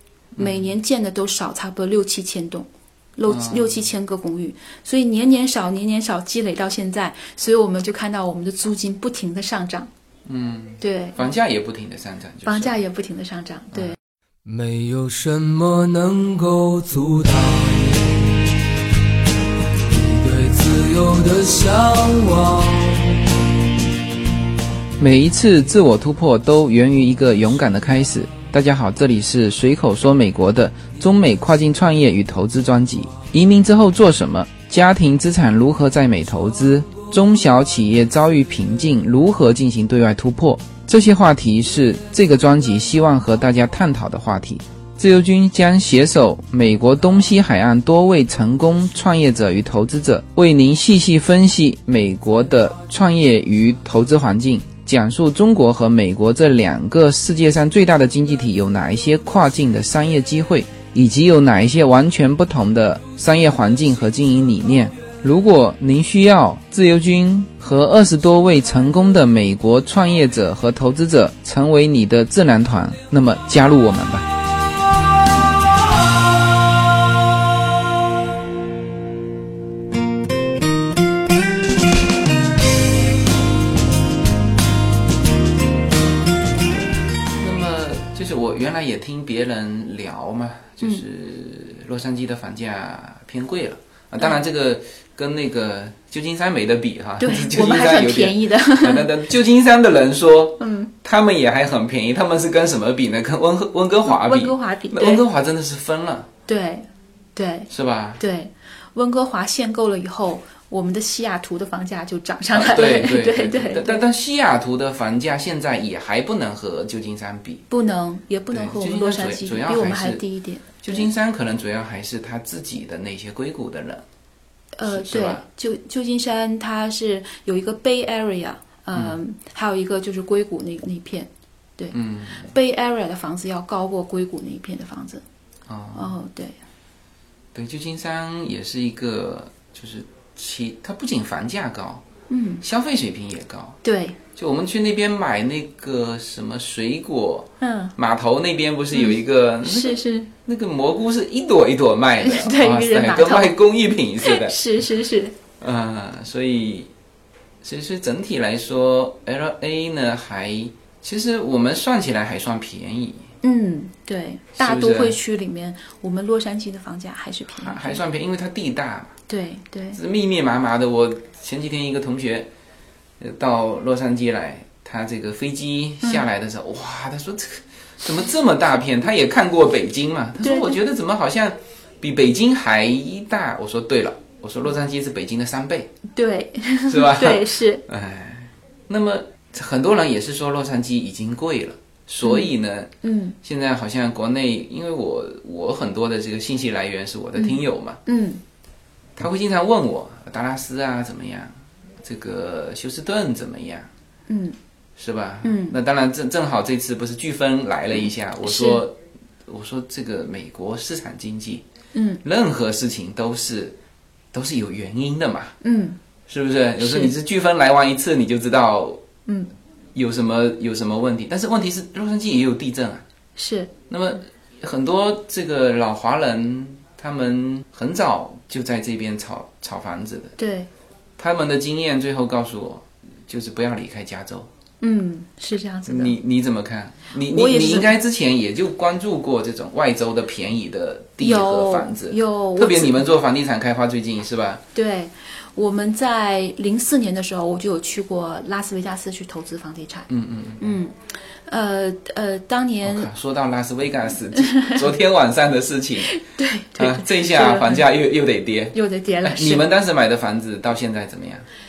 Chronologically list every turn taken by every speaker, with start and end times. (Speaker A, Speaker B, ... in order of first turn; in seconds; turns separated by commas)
Speaker A: 0.4-0.7, Speaker B: 0.4-9.9, Speaker A: 3.3-3.8, Speaker A: 10.3-12.8, Speaker B: 10.8-11.2, Speaker B: 12.4-14.0, Speaker A: 13.7-14.0, Speaker C: 14.4-18.6, Speaker C: 19.9-23.5, Speaker A: 25.0-74.3, Speaker A: 87.3-106.3, Speaker B: 97.2-99.2, Speaker B: 100.6-100.9, Speaker B: 104.0-105.2, Speaker B: 106.5-114.0, Speaker A: 107.7-108.2, Speaker A: 112.5-117.7, Speaker B: 117.7-121.1, Speaker A: 118.5-120.2, Speaker A: 120.8-124.0, Speaker B: 124.8-135.2, Speaker A: 124.9-125.4, Speaker A: 131.9-132.5, Speaker A: 135.7-136.2, Speaker B: 135.9-136.6, Speaker A: 137.5-142.1, Speaker B: 142.3-142.6, Speaker A: 142.6-143.8, Speaker B: 143.8-144.2, Speaker A: 144.4-154.6, Speaker B: 147.6-147.9, Speaker B: 148.9-150.3, Speaker B: 152.2-153.6, Speaker B: 154.2-155.3, Speaker A: 155.6-156.9, Speaker A: 157.6-163.3, Speaker B: 163.4-168.0, Speaker A: 164.6-165.2, Speaker A: 167.6-169.2, Speaker B: 169.3-170.0, Speaker A: 169.9-172.5, Speaker A: 173.2-185.9, Speaker B: 180.4-180.8, Speaker B: 186.1-187.8, Speaker A: 186.9-198.0, Speaker B: 192.2-192.5, Speaker B: 193.0-193.3, Speaker B: 197.4-198.4, Speaker A: 199.2-201.5, Speaker A: 202.0-203.9, Speaker B: 204.3-204.6, Speaker A: 205.0-211.7, Speaker B: 205.4-205.8, Speaker B: 208.4-208.8, Speaker B: 211.9-212.2, Speaker A: 212.2-213.8, Speaker A: 214.3-215.6, Speaker B: 215.6-216.0, Speaker A: 216.3-219.0, Speaker B: 216.8-217.1, Speaker A: 219.9-223.0, Speaker B: 223.4-223.7, Speaker A: 223.9-230.4, Speaker B: 230.4-230.7, Speaker A: 231.2-234.5, Speaker B: 234.8-236.2, Speaker A: 235.9-244.6, Speaker B: 237.2-237.9, Speaker B: 241.2-243.1, Speaker B: 244.7-250.9, Speaker A: 250.1-250.7, Speaker B: 251.5-253.1, Speaker A: 252.8-256.1, Speaker B: 254.3-254.8, Speaker B: 256.0-257.9, Speaker A: 256.8-261.5, Speaker B: 258.7-259.7